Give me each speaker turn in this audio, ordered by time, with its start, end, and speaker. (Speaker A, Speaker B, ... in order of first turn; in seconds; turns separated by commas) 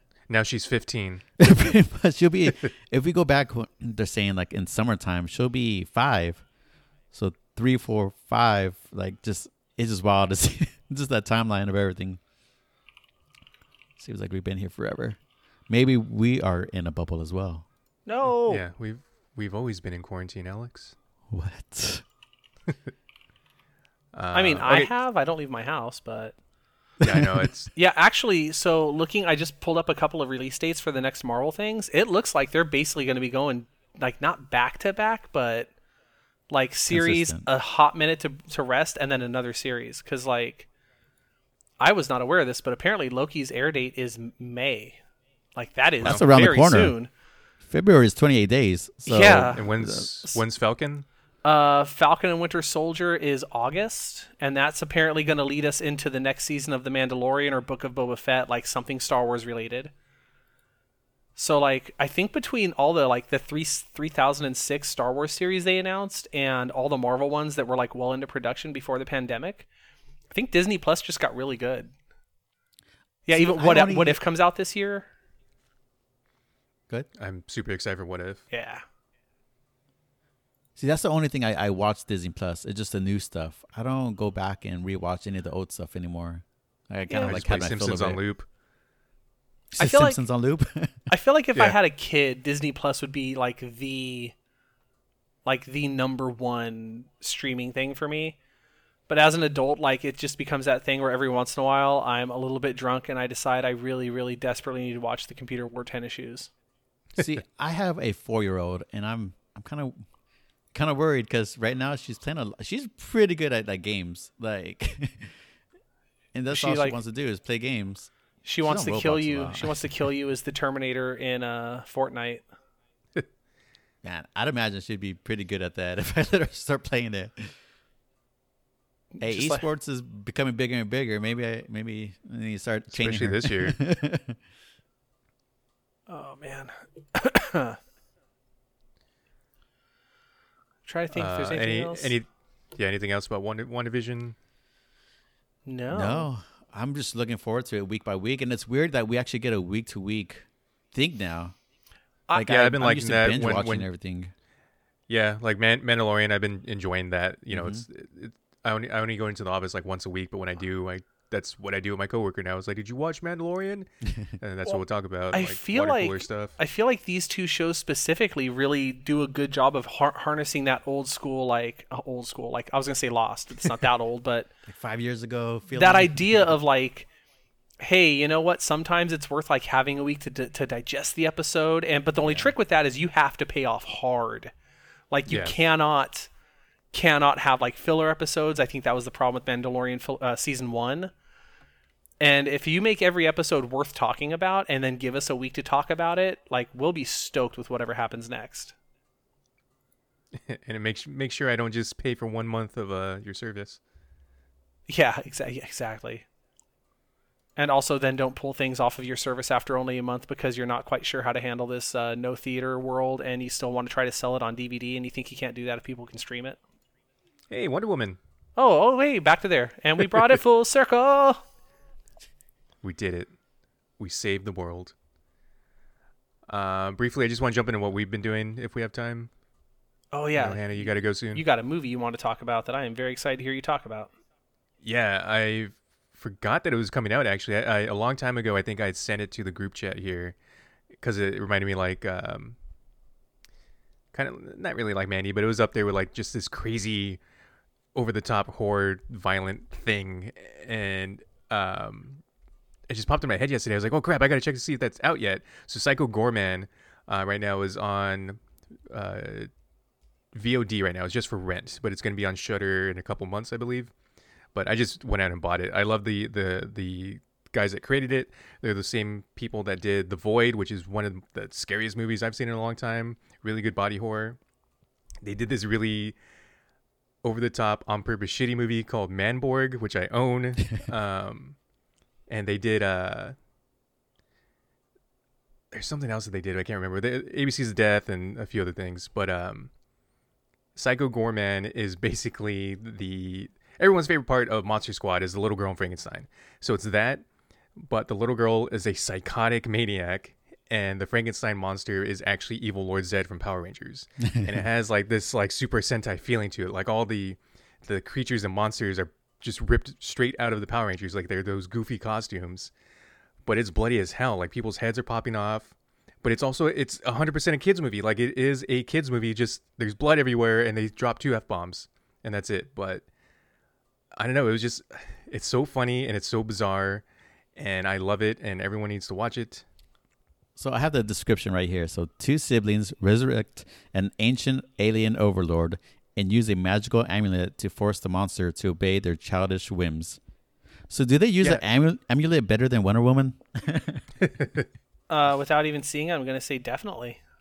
Speaker A: 0.3-1.2, Speaker B: 1.4-6.4, Speaker B: 7.1-12.2, Speaker B: 14.0-17.7, Speaker C: 18.1-18.6, Speaker A: 18.4-20.9, Speaker B: 21.3-22.1, Speaker A: 24.1-24.9, Speaker C: 24.3-26.4, Speaker B: 27.0-27.5, Speaker A: 27.0-27.7, Speaker C: 27.8-35.7, Speaker C: 36.5-40.7, Speaker B: 36.9-37.5, Speaker C: 41.8-45.0, Speaker C: 45.6-47.1, Speaker B: 46.0-47.0, Speaker B: 47.6-50.1, Speaker C: 49.1-49.6, Speaker A: 49.5-51.1, Speaker C: 51.5-59.9, Speaker C: 61.4-69.7, Speaker C: 70.3-71.9, Speaker C: 73.3-75.1, Speaker B: 73.4-74.2, Speaker A: 77.2-78.5, Speaker C: 78.5-78.8, Speaker B: 80.8-88.2, Speaker C: 87.1-87.4, Speaker A: 87.2-88.5, Speaker B: 89.7-91.0, Speaker C: 89.8-90.2, Speaker C: 91.1-94.3, Speaker C: 95.5-98.4, Speaker C: 99.1-106.5, Speaker B: 107.2-110.0, Speaker B: 110.7-115.4, Speaker B: 116.3-120.0, Speaker C: 116.5-117.0, Speaker C: 118.4-122.5, Speaker B: 124.0-127.5, Speaker C: 129.1-129.7, Speaker B: 129.2-134.4, Speaker A: 132.9-133.7, Speaker C: 136.1-137.8, Speaker C: 140.9-142.2, Speaker A: 141.1-144.3, Speaker C: 145.7-146.3, Speaker B: 145.9-151.6, Speaker C: 152.3-152.5, Speaker B: 152.3-154.3, Speaker A: 152.4-153.9, Speaker A: 155.1-166.6, Speaker B: 157.5-157.8, Speaker C: 165.3-174.5, Speaker B: 174.7-176.5, Speaker C: 175.8-177.1, Speaker C: 177.8-184.5, Speaker C: 185.1-186.3, Speaker A: 185.3-185.6, Speaker C: 186.9-191.1, Speaker C: 192.2-198.8, Speaker A: 200.3-203.8, Speaker C: 204.9-206.3, Speaker C: 207.6-216.6, Speaker A: 217.5-218.2, Speaker C: 218.6-221.4, Speaker A: 222.8-223.3, Speaker A: 224.0-224.9, Speaker A: 226.5-229.3, Speaker C: 230.1-234.1, Speaker A: 230.4-231.4, Speaker A: 234.8-240.4, Speaker A: 241.0-242.6, Speaker A: 244.1-247.2, Speaker A: 247.9-252.2, Speaker A: 252.9-258.4, Speaker A: 258.9-259.5, Speaker A: 260.3-263.9, Speaker A: 264.6-274.4, Speaker A: 275.2-276.2, Speaker A: 277.2-281.6, Speaker A: 282.3-283.4, Speaker A: 285.7-289.7, Speaker A: 290.8-312.7, Speaker A: 313.4-323.0, Speaker A: 324.2-327.0, Speaker A: 327.6-329.6, Speaker B: 330.6-340.2, Speaker B: 340.9-344.1, Speaker A: 344.3-344.7, Speaker C: 345.1-347.2